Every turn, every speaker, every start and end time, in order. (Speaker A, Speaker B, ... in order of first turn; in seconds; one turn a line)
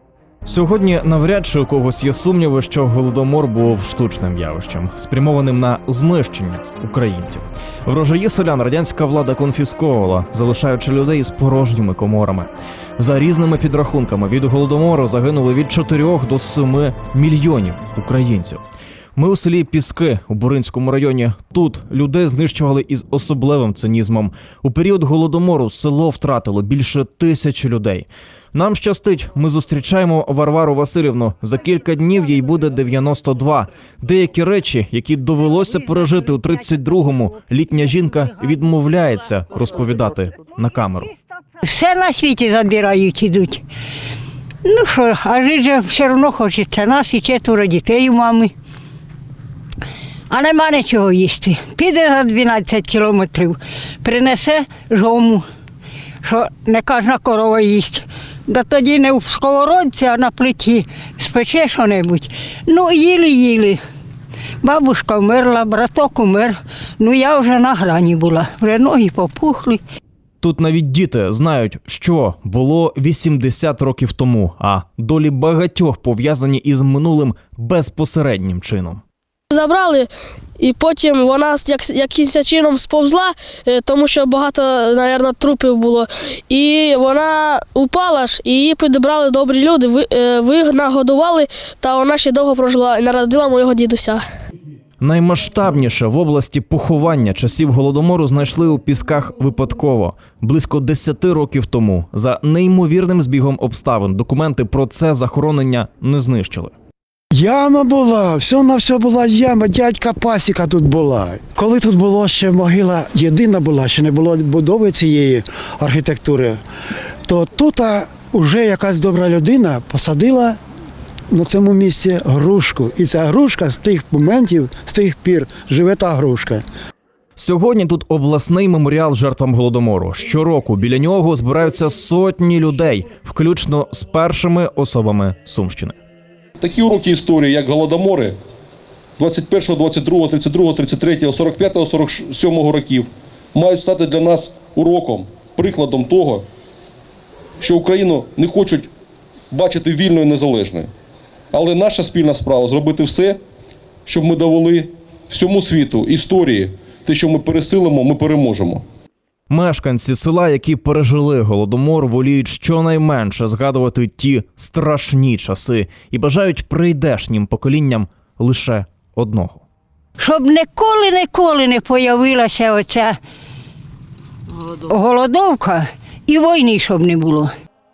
Speaker A: 0.5-18.6
Speaker A: 19.2-41.1
Speaker B: 41.6-43.6
Speaker B: 44.6-48.5
Speaker B: 50.3-55.5
Speaker B: 56.2-63.8
Speaker B: 64.6-69.8
Speaker A: 70.4-79.0
Speaker C: 79.5-94.2
Speaker A: 95.0-106.7
Speaker D: 107.3-116.6
Speaker D: 117.3-120.6
Speaker D: 121.3-126.6
Speaker A: 127.4-136.0
Speaker E: 136.6-138.4
Speaker E: 139.2-146.5
Speaker E: 147.6-148.9
Speaker E: 149.5-150.9
Speaker E: 151.5-153.4
Speaker E: 154.1-158.8
Speaker A: 159.5-169.7
Speaker B: 170.2-173.2
Speaker B: 174.9-177.5